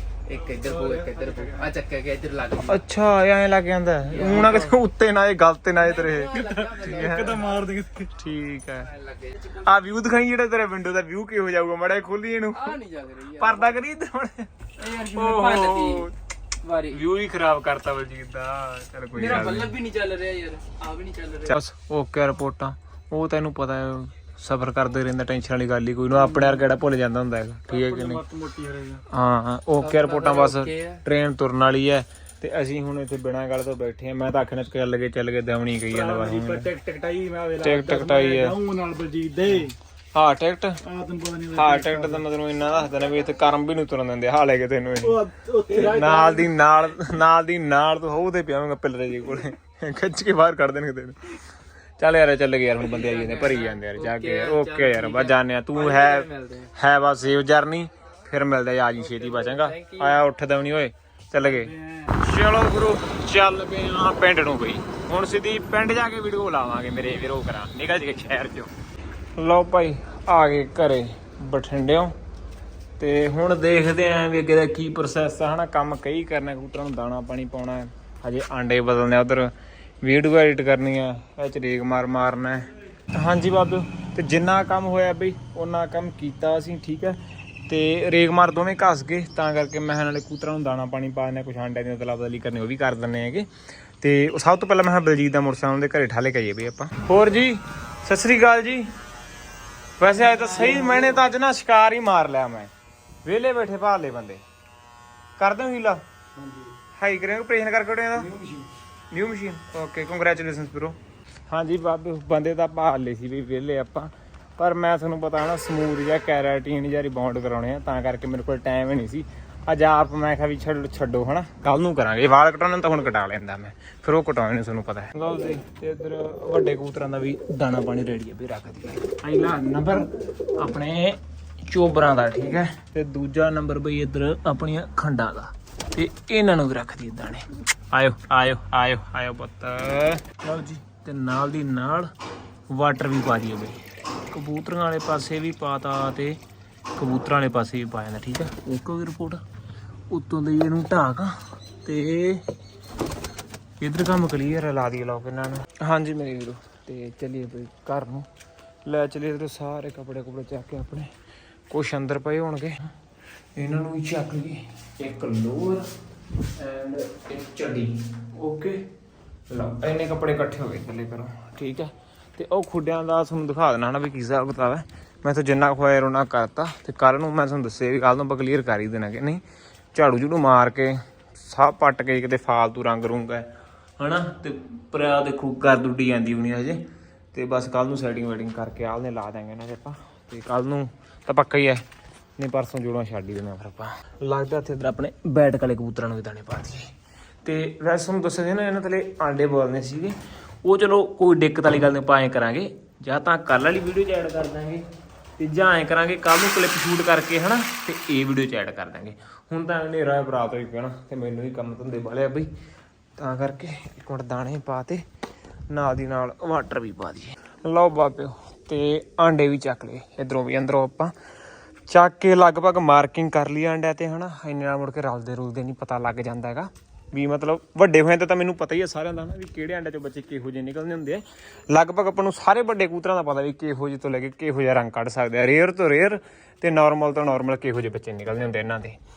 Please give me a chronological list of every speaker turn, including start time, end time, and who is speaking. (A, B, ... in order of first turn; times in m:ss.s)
0:00.3-0:02.8 A
0:00.7-0:01.4 B
0:02.6-0:07.4 C
0:04.1-0:04.7 A
0:05.8-0:07.6 A
0:06.9-0:08.1 B
0:08.1-0:08.9 C
0:08.8-0:09.6 A
0:09.5-0:12.8 C
0:12.5-0:13.8 A
0:13.3-0:16.1 C
0:14.8-0:17.0 A
0:16.9-0:19.8 C
0:19.1-0:21.6 A
0:21.5-0:28.2 C
0:27.7-0:29.0 B
0:29.1-0:36.7 C
0:29.8-0:31.0 A
0:35.9-0:39.8 B
0:37.6-0:38.6 C
0:40.1-0:40.8 C
0:40.8-0:42.2 B
0:41.5-0:51.4 C
0:45.0-0:46.5 B
0:52.0-1:08.7 C
0:52.9-0:56.7 A
0:59.0-1:00.1 A
1:01.7-1:02.1 B
1:09.4-1:12.1 C
1:13.0-1:33.5 C
1:34.0-1:38.9 C
1:40.0-1:42.7 C
1:40.3-1:41.1 A
1:43.2-1:44.4 C
1:45.4-1:46.0 C
1:47.0-1:48.3 C
1:48.3-1:48.6 A
1:49.1-1:51.0 C
1:51.5-2:22.1 C
2:22.7-2:26.4 C
2:27.0-2:29.4 C
2:30.1-2:32.4 C
2:33.8-2:38.3 C
2:38.8-2:41.1 C
2:41.7-2:42.9 C
2:43.6-2:45.9 C
2:46.6-2:48.8 C
2:49.5-2:59.4 C
2:59.9-3:03.5 C
3:04.0-3:11.8 C
3:12.4-3:16.9 C
3:17.4-3:24.9 C
3:25.4-3:32.5 C
3:33.2-3:35.0 C
3:35.7-3:41.1 C
3:41.9-3:59.0 C